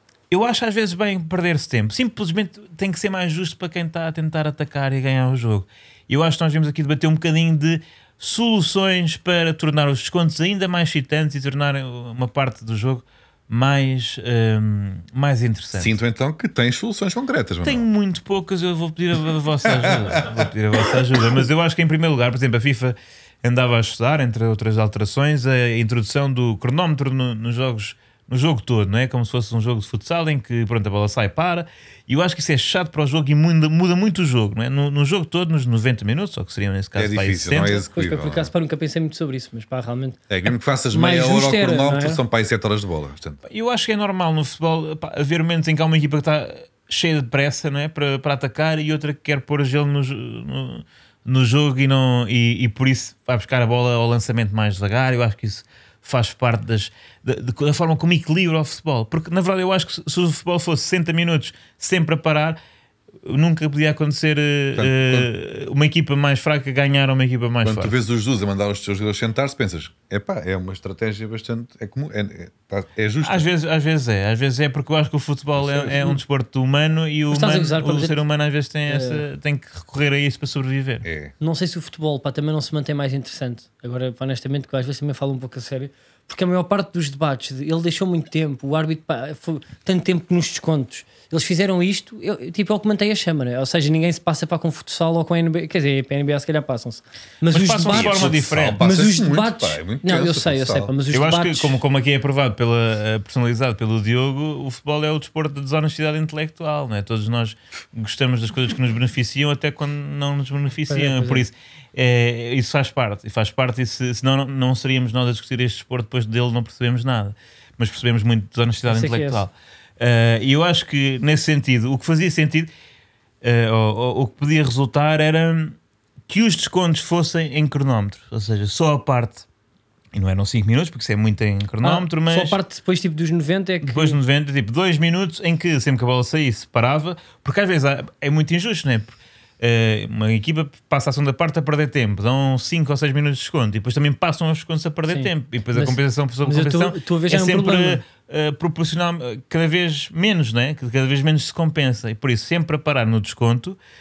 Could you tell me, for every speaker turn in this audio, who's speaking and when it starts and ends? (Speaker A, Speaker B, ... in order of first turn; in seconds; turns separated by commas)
Speaker A: 0.3-15.9, Speaker B: 15.7-17.8, Speaker A: 17.6-37.8, Speaker B: 19.6-20.4, Speaker B: 37.0-38.5, Speaker C: 37.9-40.2, Speaker B: 40.3-43.4, Speaker C: 40.9-42.2, Speaker A: 43.5-62.6, Speaker A: 63.2-67.9, Speaker B: 64.8-65.3, Speaker B: 67.6-73.5, Speaker A: 73.2-81.1, Speaker C: 75.7-76.2, Speaker C: 77.3-78.2, Speaker C: 78.9-79.2, Speaker B: 81.0-81.3, Speaker C: 81.4-101.8, Speaker A: 97.5-98.8, Speaker B: 97.8-100.9, Speaker A: 101.1-122.7, Speaker C: 110.9-111.4, Speaker C: 118.9-119.4, Speaker A: 123.4-125.8, Speaker A: 126.3-129.4, Speaker A: 130.1-132.6, Speaker C: 131.8-134.2, Speaker A: 133.8-153.8, Speaker C: 145.1-148.0